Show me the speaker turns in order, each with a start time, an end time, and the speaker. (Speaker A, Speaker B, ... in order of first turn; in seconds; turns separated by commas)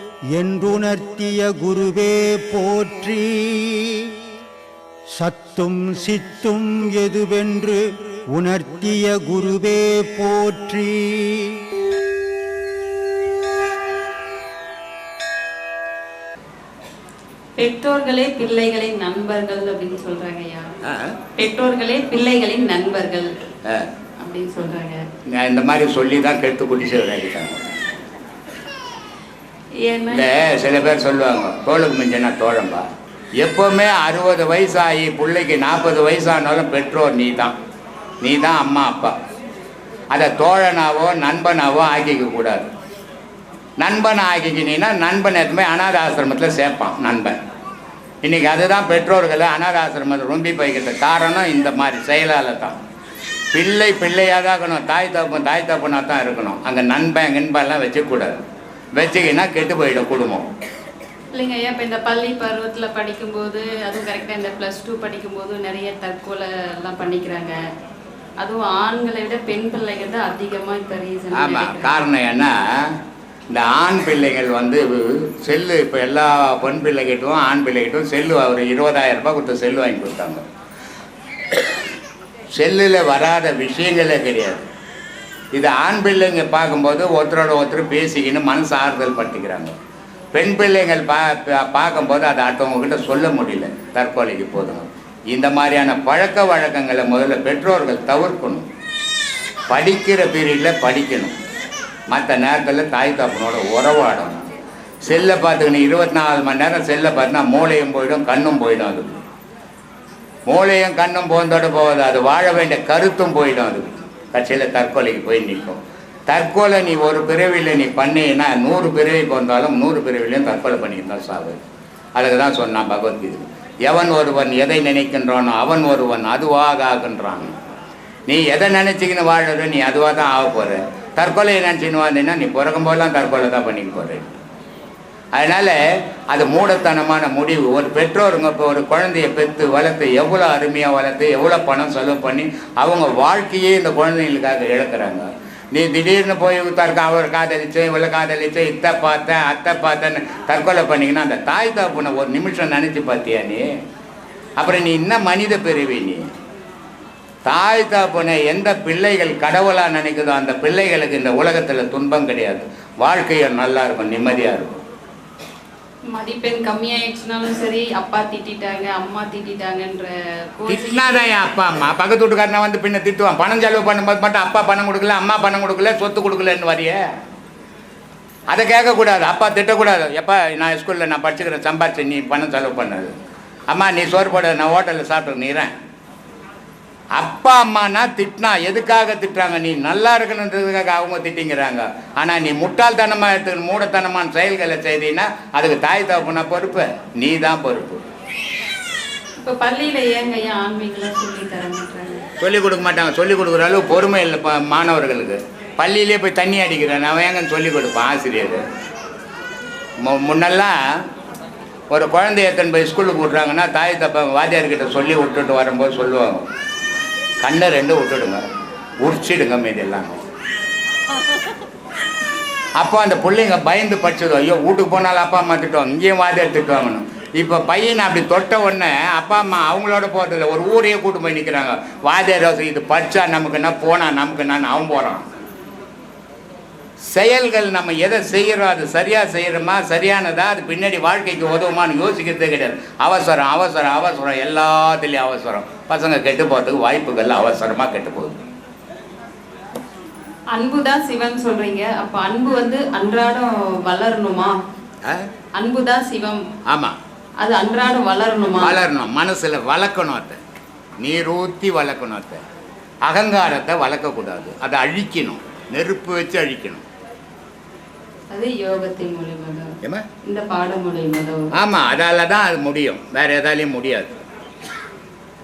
Speaker A: 0.3-4.1, Speaker A: 5.1-11.6, Speaker B: 17.6-20.7, Speaker B: 21.4-23.3, Speaker B: 24.2-25.0, Speaker C: 25.4-27.8, Speaker B: 29.8-30.4, Speaker C: 30.1-32.9, Speaker C: 33.4-37.6, Speaker C: 38.2-39.1, Speaker C: 40.1-42.7, Speaker C: 43.8-47.4, Speaker C: 48.2-52.8, Speaker C: 53.5-58.4, Speaker C: 59.0-60.5, Speaker B: 61.3-67.6, Speaker B: 68.4-72.0, Speaker C: 71.4-72.6, Speaker C: 73.5-80.4, Speaker C: 82.5-84.6, Speaker C: 85.5-89.8, Speaker C: 90.3-98.7, Speaker C: 99.7-101.4, Speaker C: 102.1-104.5, Speaker C: 105.0-109.2, Speaker C: 110.5-121.6, Speaker C: 122.2-127.5, Speaker C: 128.3-134.4, Speaker C: 135.3-135.8, Speaker C: 136.3-153.7, Speaker C: 154.6-156.3, Speaker C: 157.5-164.8, Speaker B: 166.1-171.4, Speaker C: 170.7-177.0, Speaker C: 178.5-183.1, Speaker C: 183.7-185.7, Speaker C: 187.2-198.1, Speaker B: 199.4-202.3, Speaker C: 202.4-208.6, Speaker C: 210.0-210.8, Speaker C: 211.9-216.4, Speaker C: 217.4-218.4, Speaker C: 219.0-220.2, Speaker C: 222.8-235.3, Speaker C: 237.1-248.4, Speaker B: 250.5-254.6, Speaker B: 255.6-256.4, Speaker C: 256.7-257.0, Speaker B: 257.4-258.8, Speaker C: 258.6-260.4, Speaker C: 261.0-262.4, Speaker C: 263.1-266.9, Speaker B: 268.3-271.5, Speaker C: 271.6-274.2